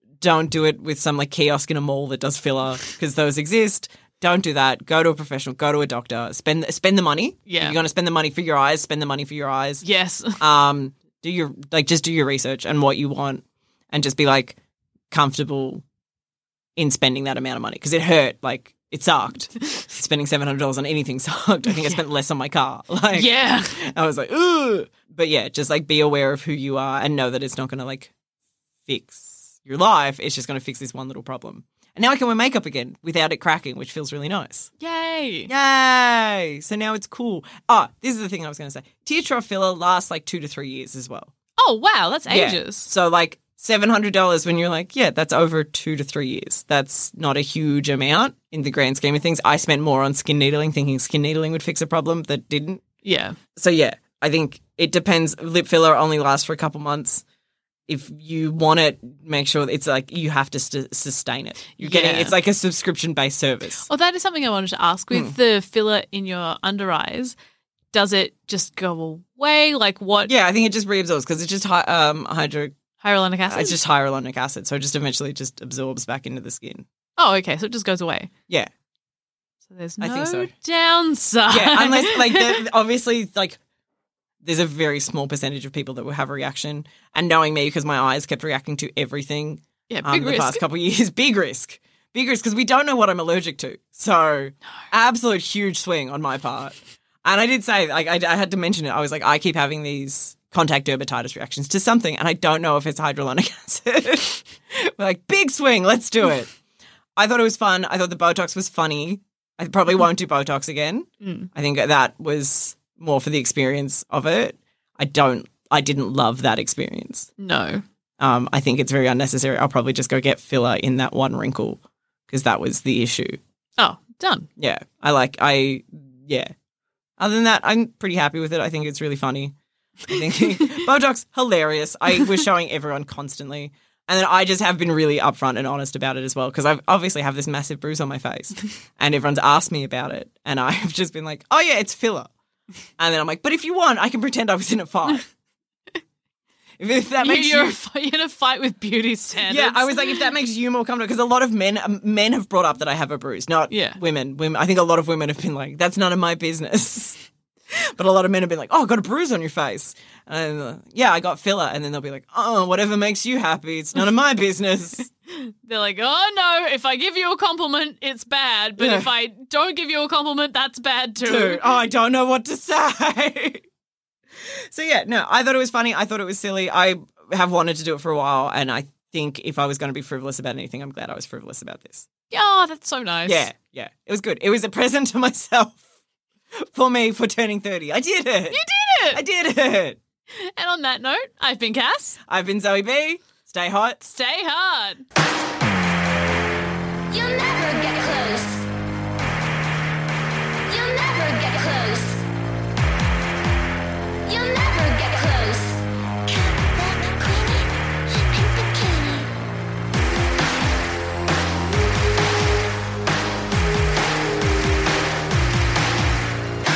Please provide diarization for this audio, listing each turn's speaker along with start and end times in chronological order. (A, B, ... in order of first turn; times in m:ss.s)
0:00.2-0:09.8 A
0:07.5-0:07.8 B
0:09.8-0:10.4 B
0:10.4-0:14.6 A
0:15.1-0:15.8 A
0:16.8-0:28.1 A
0:21.7-0:22.0 B
0:23.1-0:23.8 B
0:28.8-0:34.7 A
0:34.8-0:35.5 B
0:35.5-0:41.3 A
0:41.6-0:42.9 B
0:42.3-0:52.8 A
0:53.0-0:53.4 B
0:53.6-0:57.2 A
0:57.9-1:03.9 A
1:01.8-1:02.4 B
1:03.9-1:07.3 B
1:07.9-1:10.3 B
1:10.3-1:12.8 A
1:13.0-1:13.8 B
1:13.5-1:16.8 A
1:17.2-1:18.3 B
1:19.7-1:22.6 B
1:20.0-1:20.5 A
1:21.5-1:23.6 A
1:24.4-1:46.5 A
1:29.9-1:30.6 B
1:47.2-1:57.3 A
1:51.2-1:51.5 B
1:57.4-1:57.8 B
1:58.2-2:03.4 A
2:03.8-2:04.5 B
2:04.6-2:06.5 A
2:07.2-2:09.5 A
2:10.1-2:22.3 A
2:23.0-2:25.3 A
2:26.8-2:27.7 A
2:27.2-2:30.3 B
2:29.4-2:37.2 A
2:33.7-2:34.0 B
2:37.7-2:45.1 A
2:45.3-2:51.6 B
2:48.8-2:49.1 A
2:51.2-2:53.6 A
2:54.7-3:02.1 A
3:02.3-3:03.5 B
3:03.3-3:05.8 A
3:06.7-3:08.6 A
3:08.5-3:09.2 B
3:09.1-3:10.0 A
3:10.3-3:12.2 B
3:12.3-3:14.1 A
3:14.1-3:15.0 B
3:17.1-3:18.7 C
3:20.6-3:22.3 C
3:24.2-3:29.3 C